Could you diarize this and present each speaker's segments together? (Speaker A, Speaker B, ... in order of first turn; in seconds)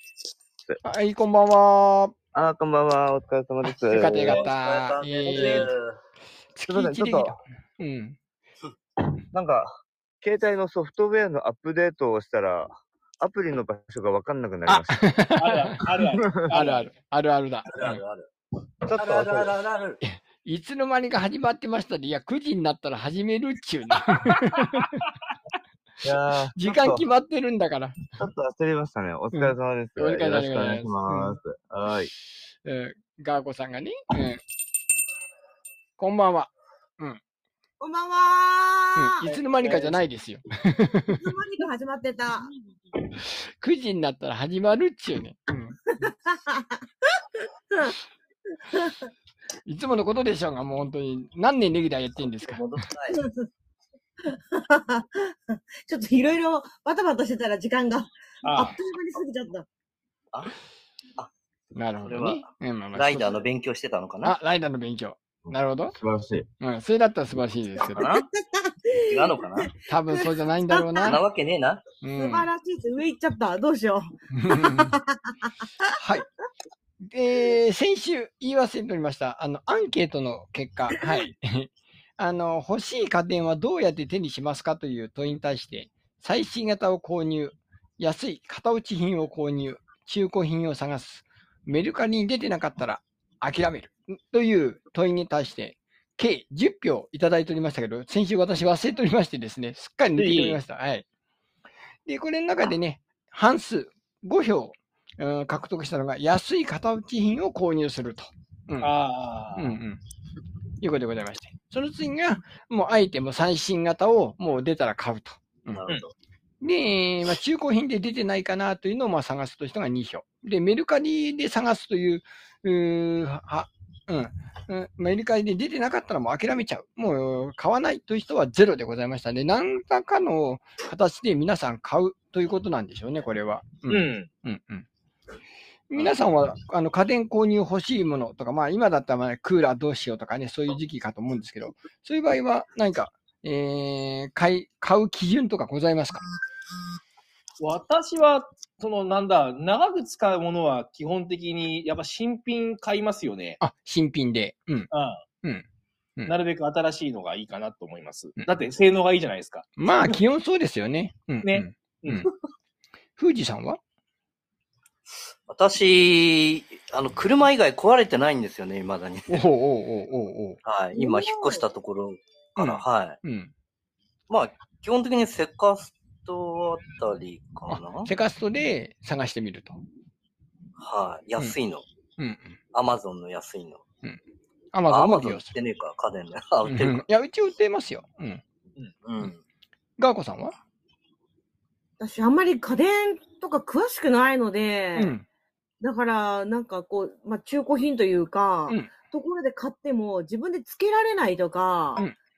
Speaker A: 0.8-2.2, 3.7-5.7, 6.6-8.2, 14.7-15.8, 16.5-18.0, 20.1-25.0, 26.5-28.0, 29.3-31.4, 32.6-34.4, 36.0-37.2, 39.0-41.3, 43.2-45.8, 49.7-52.6, 61.8-63.4, 64.2-66.0, 66.6-68.1, 69.9-71.2, 72.0-72.5, 74.3-75.0, 76.0-76.2, 77.0-101.0, 102.1-108.9, 109.5-110.0, 110.8-115.8, 116.6-134.9, 135.9-146.2, 153.6-154.9, 159.8-162.3, 163.2-163.8, 169.3-170.6, 172.6-173.5, 177.7-179.8, 182.2-182.6, 184.7-185.5, 186.7-188.4, 190.0-190.6, 194.9-195.3, 198.7-198.9
Speaker B: 2.3-4.5, 6.7-7.4, 9.3-9.7, 10.2-15.2, 18.8-19.5, 26.0-27.0, 28.1-32.1, 65.4-66.5
Speaker C: 4.2-6.0, 17.7-18.3, 19.0-20.0, 52.4-53.2, 62.1-64.3, 69.1-69.7, 71.1-71.8, 115.7-116.1, 165.5-169.4, 170.7-173.2, 174.3-178.1, 180.8-181.8, 182.7-183.8, 184.9-187.1, 189.0-189.4
Speaker D: 15.4-16.8, 24.3-24.9, 39.5-40.0, 58.4-58.8, 68.0-68.2, 100.2-100.6, 108.8-109.8, 133.9-134.3, 147.6-153.6, 154.9-155.2, 156.3-160.2, 161.4-162.3
Speaker E: 37.8-39.3, 41.1-42.5, 46.0-46.8, 47.7-48.0, 48.7-49.0, 53.1-53.5, 54.3-59.7, 68.0-71.2, 72.2-75.5, 171.0-171.7, 192.0-195.1, 195.8-202.1